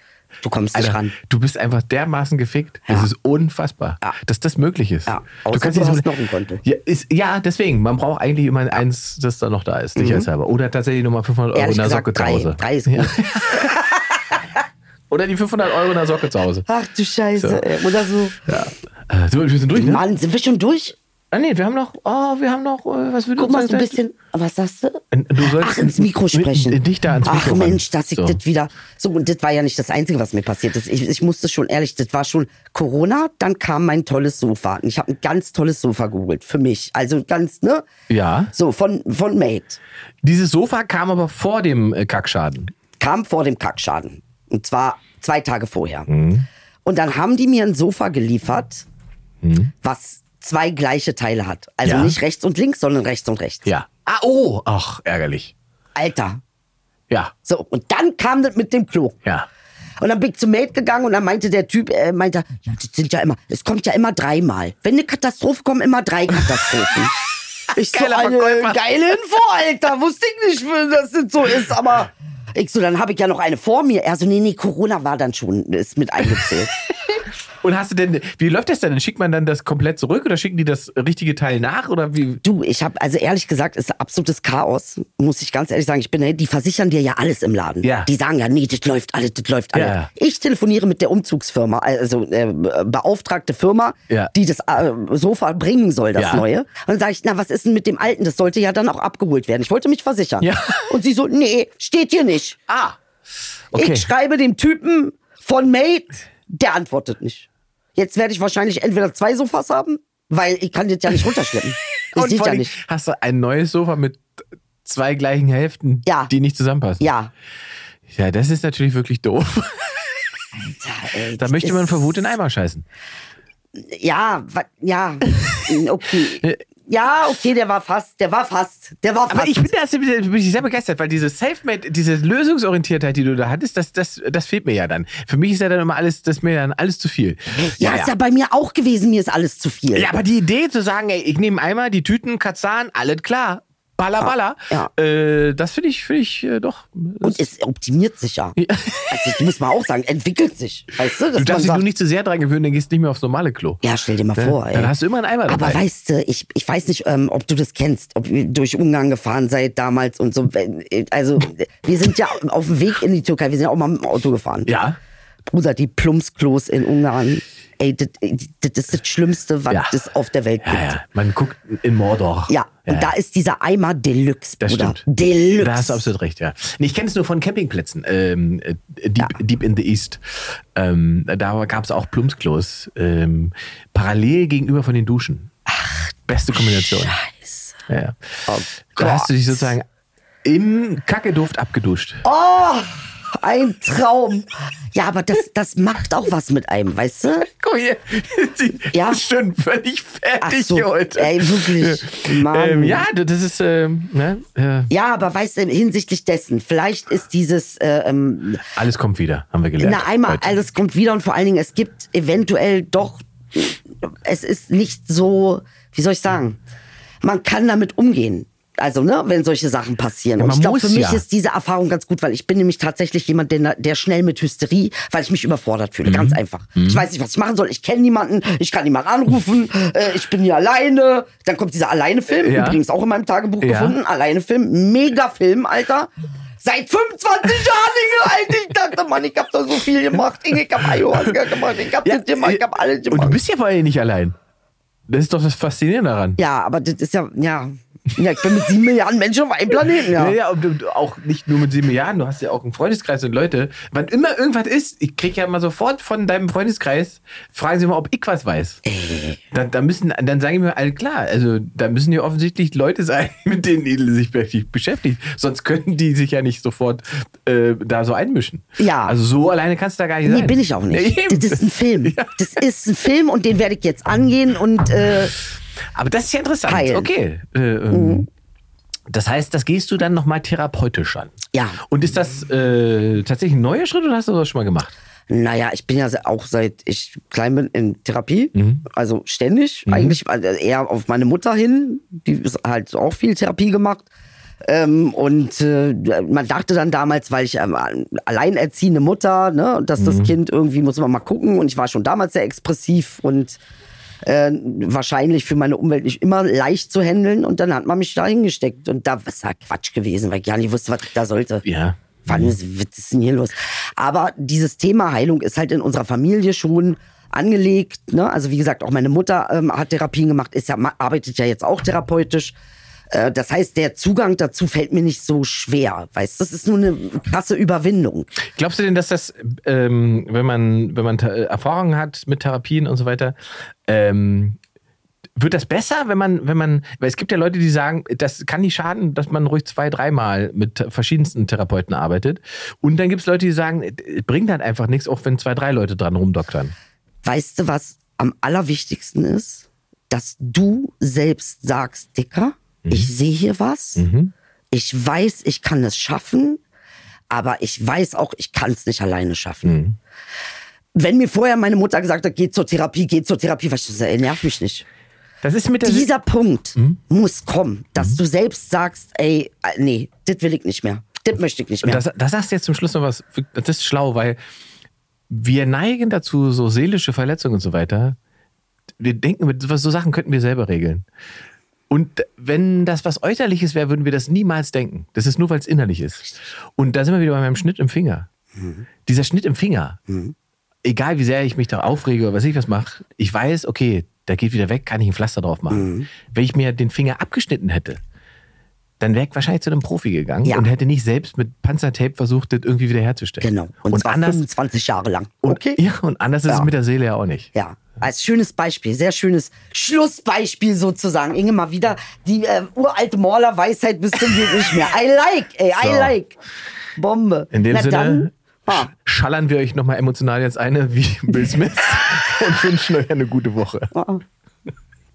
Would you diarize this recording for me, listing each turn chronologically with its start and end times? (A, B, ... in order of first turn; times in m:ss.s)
0:00.4-0:01.1 A
0:00.7-0:06.1 B
0:05.1-0:06.6 A
0:06.6-0:13.9 B
0:10.0-0:10.3 A
0:11.5-0:14.4 A
0:15.1-0:16.7 B
0:16.7-0:18.4 A
0:17.4-0:17.7 B
0:18.4-0:20.0 B
0:19.7-0:21.0 A
0:21.3-0:24.0 B
0:23.4-0:37.9 A
0:25.1-0:28.4 B
0:38.1-0:38.5 B
0:38.5-0:39.8 A
0:40.2-0:42.7 B
0:43.0-0:46.1 A
0:46.1-0:46.5 B
0:46.8-0:48.9 A
0:49.4-0:49.7 B
0:49.8-0:53.7 A
0:51.8-0:52.2 B
0:53.6-0:55.5 B
0:56.0-0:56.4 A
0:57.4-0:59.2 A
1:00.0-1:07.1 A
1:07.7-1:16.7 A
1:07.7-1:08.8 B
1:17.6-1:22.4 B
1:22.4-1:42.6 A
1:27.8-1:28.1 B
1:29.7-1:30.1 B
1:36.2-1:36.4 B
1:40.4-1:40.9 B
1:42.7-1:43.0 B
1:43.7-1:44.1 B
1:43.7-1:52.8 A
1:52.1-1:54.3 B
1:54.8-1:57.0 B
1:56.0-1:56.3 A
1:57.0-1:57.3 A
1:58.1-2:00.2 B
2:00.6-2:02.3 A
2:01.4-2:02.8 B
2:03.8-2:09.7 A
2:09.3-2:18.1 B
2:17.6-2:20.1 A
2:19.9-2:27.4 B
2:24.2-2:24.9 A
2:27.2-2:28.6 A
2:28.6-2:29.4 B
2:29.1-2:31.9 A
2:31.3-2:33.8 B
2:33.8-2:34.9 A
2:34.4-2:35.8 B
2:35.5-2:44.7 A
2:44.6-2:45.0 B
2:45.5-2:51.0 A
2:49.7-2:50.0 B
2:50.6-2:53.1 B
2:52.5-2:56.0 A
2:54.6-2:55.0 B
2:55.6-3:05.5 B
3:05.7-3:06.1 A
3:06.3-3:07.2 B
3:06.8-3:07.8 A
3:07.9-3:08.3 B
3:08.5-3:09.7 A
3:08.9-3:09.9 B
3:10.4-3:12.2 B
3:12.2-3:17.5 A
3:17.4-3:24.9 B
3:18.9-3:19.2 A
3:20.4-3:23.0 A
3:24.9-3:28.6 A
3:28.7-3:30.6 B
3:29.8-3:36.6 A
3:37.2-4:03.4 A
3:40.4-3:41.2 B
3:46.0-3:47.1 B
3:52.3-3:52.8 B
3:53.6-3:54.0 B
4:02.0-4:04.4 B
4:05.1-4:06.4 B
4:06.4-4:10.3 A
4:10.1-4:18.8 B
4:18.8-4:19.4 A
4:19.5-4:32.3 B
4:28.8-4:29.2 A
4:30.2-4:35.3 A
4:35.9-4:38.3 B
4:36.7-4:37.1 A
4:37.9-4:38.3 A
4:39.1-4:44.9 B
4:41.5-4:41.8 A
4:45.3-4:54.1 A
4:48.6-4:48.8 B
4:49.9-4:50.2 B
4:54.6-5:03.6 A
5:00.0-5:00.3 B
5:04.2-5:11.6 A
5:11.6-5:12.6 B
5:12.3-5:22.6 A
5:23.1-5:28.3 A
5:28.5-5:33.3 B
5:33.9-5:34.6 B
5:35.4-5:46.7 B
5:47.2-5:54.0 A
5:52.8-5:53.1 B
5:54.0-5:54.3 B
5:54.7-5:56.6 A
5:57.3-5:59.7 A
5:59.6-6:00.0 B
6:01.0-6:04.8 A
6:05.4-6:06.1 B
6:05.8-6:12.0 A
6:11.8-6:14.4 B
6:15.3-6:18.2 B
6:19.0-6:21.0 B
6:21.9-6:28.3 B
6:28.6-6:28.8 A
6:29.0-6:30.0 B
6:30.1-6:30.3 A
6:30.8-6:38.0 B
6:35.7-6:36.1 A
6:39.0-6:44.4 B
6:43.4-6:45.8 A
6:45.4-6:47.5 B
6:47.6-6:56.4 A
6:55.8-6:56.1 B
6:57.0-6:58.9 A
6:57.5-7:03.9 B
7:03.9-7:04.2 A